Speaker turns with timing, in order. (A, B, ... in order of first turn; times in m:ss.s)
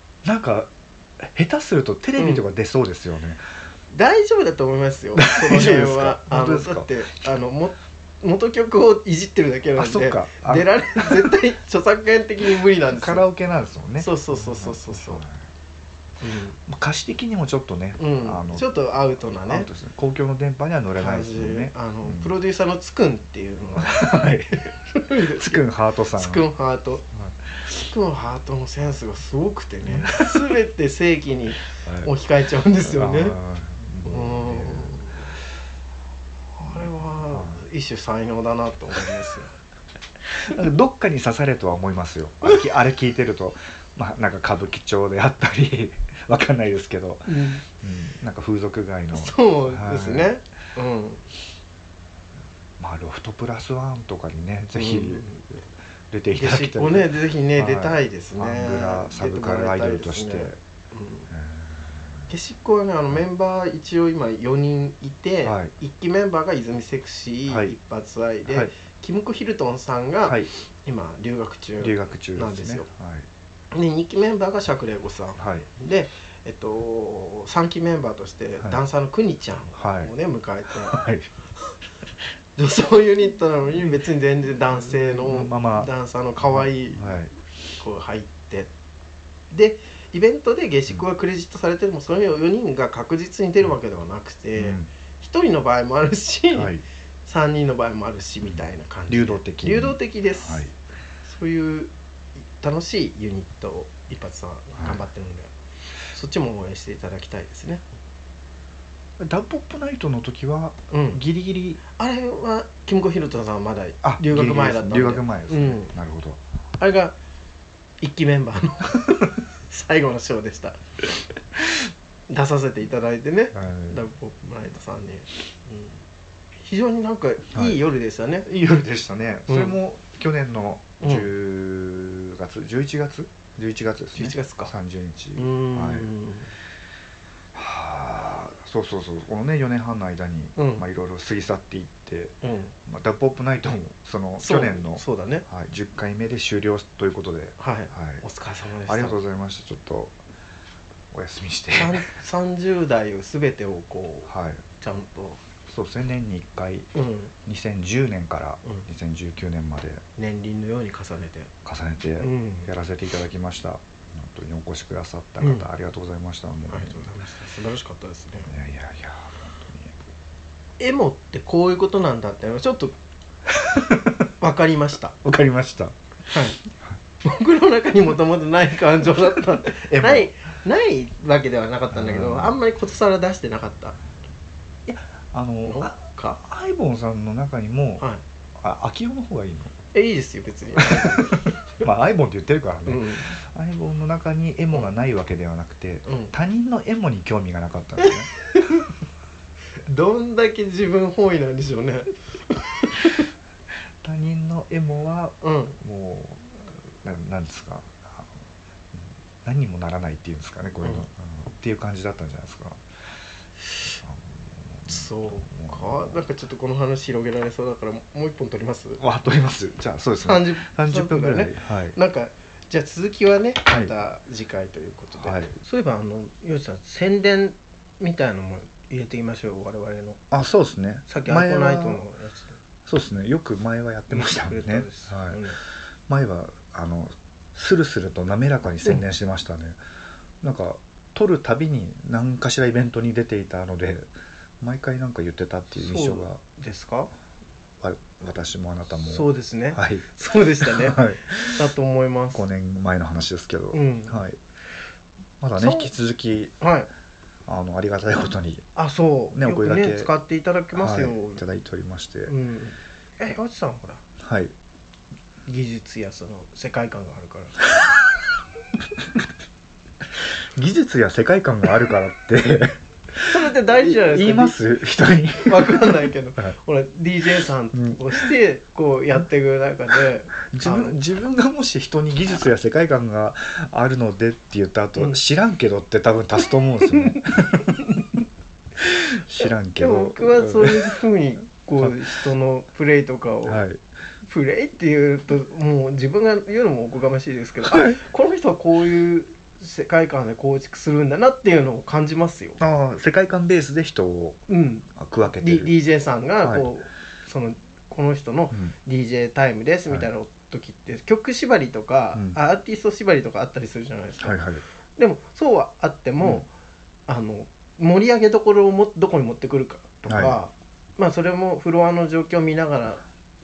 0:00.2-0:03.4 A
0:02.2-0:02.4 B
0:03.9-0:13.2 B
0:05.2-0:06.9 A
0:09.8-0:11.3 A
0:12.9-0:15.4 A
0:14.0-0:15.2 B
0:16.2-0:16.6 B
0:16.7-0:18.7 A
0:18.0-0:19.7 B
0:19.4-0:22.3 A
0:21.0-0:25.6 B
0:23.8-0:26.5 A
0:26.2-0:27.0 B
0:27.1-0:27.5 A
0:27.8-0:33.4 B
0:29.9-0:30.5 A
0:31.8-0:32.1 A
0:32.8-0:35.0 A
0:34.0-0:35.3 B
0:36.6-0:39.5 B
0:36.7-0:37.6 A
0:40.3-0:50.3 A
0:47.3-0:47.6 B
0:49.1-0:51.2 B
0:52.8-0:55.3 A
0:54.8-0:55.5 B
0:56.1-1:00.6 A
0:56.3-1:01.3 B
1:01.3-1:02.0 A
1:02.3-1:12.9 B
1:05.4-1:05.7 A
1:07.5-1:07.8 A
1:08.5-1:08.7 A
1:10.2-1:10.5 A
1:11.8-1:13.3 A
1:13.7-1:21.0 B
1:15.4-1:15.7 A
1:19.8-1:20.1 A
1:20.8-1:21.3 A
1:22.6-1:27.2 B
1:24.9-1:25.9 A
1:26.4-1:27.3 A
1:27.8-1:28.7 B
1:29.5-1:36.7 B
1:34.6-1:34.9 A
1:36.5-1:36.8 A
1:37.2-1:40.7 B
1:38.4-1:40.7 A
1:41.2-1:41.9 B
1:42.6-1:45.5 B
1:46.1-1:47.8 B
1:49.2-1:51.8 A
1:50.9-1:51.2 B
1:51.9-1:55.9 B
1:54.0-1:56.4 A
1:56.8-1:57.2 B
1:58.0-2:00.8 B
2:02.3-2:06.0 B
2:03.5-2:04.0 A
2:06.6-2:08.5 B
2:07.5-2:07.8 A
2:08.4-2:16.1 A
2:09.5-2:09.8 B
2:11.0-2:11.3 B
2:14.2-2:14.7 B
2:15.4-2:16.5 B
2:17.5-2:28.2 A
2:20.6-2:20.8 B
2:22.4-2:22.8 B
2:24.4-2:25.5 B
2:27.6-2:29.2 B
2:28.9-2:30.2 A
2:31.1-2:32.1 A
2:31.7-2:35.4 B
2:34.3-2:34.6 A
2:35.7-2:36.9 A
2:36.9-2:37.3 B
2:37.4-2:40.0 A
2:40.2-2:41.5 B
2:41.6-2:47.1 A
2:42.2-2:42.7 B
2:45.4-2:45.7 B
2:46.7-2:48.5 B
2:48.5-2:49.9 A
2:50.8-2:53.0 B
2:53.5-2:54.3 A
2:54.4-2:55.2 B
2:55.2-2:56.0 A
2:56.3-2:56.6 B
2:57.2-3:04.0 B
2:59.4-3:00.3 A
3:01.9-3:02.6 A
3:04.9-3:08.0 A
3:05.6-3:06.4 B
3:08.6-3:09.7 A
3:09.9-3:11.6 B
3:10.8-3:18.3 A
3:12.9-3:13.3 B
3:16.1-3:16.3 B
3:18.0-3:18.8 B
3:19.9-3:23.3 B
3:24.0-3:28.3 A
3:25.4-3:25.8 B
3:29.0-3:32.8 A
3:34.0-3:36.2 A
3:34.9-3:39.0 B
3:39.0-3:42.0 A
3:40.2-3:50.2 B
3:43.7-3:43.9 A
3:45.2-3:45.6 A
3:50.3-3:52.0 A
3:51.1-3:52.6 B
3:52.9-3:55.4 A
3:54.1-3:55.6 B
3:56.1-3:59.8 A
4:00.4-4:04.1 A
4:04.6-4:06.4 A
4:05.8-4:07.1 B
4:07.8-4:10.1 A
4:09.0-4:12.4 B
4:10.6-4:11.6 A
4:12.3-4:14.4 A
4:13.7-4:14.2 B
4:15.4-4:16.6 A
4:15.6-4:15.9 B
4:16.6-4:16.9 B
4:17.5-4:18.7 A
4:18.8-4:21.4 B
4:19.3-4:20.1 A
4:20.8-4:22.3 A
4:22.3-4:24.0 B
4:24.2-4:24.5 A
4:25.5-4:27.6 B
4:30.6-4:36.5 A
4:33.2-4:34.6 B
4:35.4-4:41.0 B
4:37.8-4:38.3 A
4:40.5-4:47.8 A
4:46.9-4:48.1 B
4:48.8-4:51.0 A
4:49.8-4:53.6 B
4:51.8-4:52.1 A
4:53.5-4:53.8 A
4:54.2-5:02.6 B
4:57.6-4:58.0 A
5:02.6-5:04.4 A
5:04.5-5:14.4 B
5:05.0-5:05.7 A
5:06.4-5:06.7 A
5:14.2-5:14.6 A
5:15.0-5:16.5 B
5:17.1-5:23.0 B
5:20.1-5:20.4 A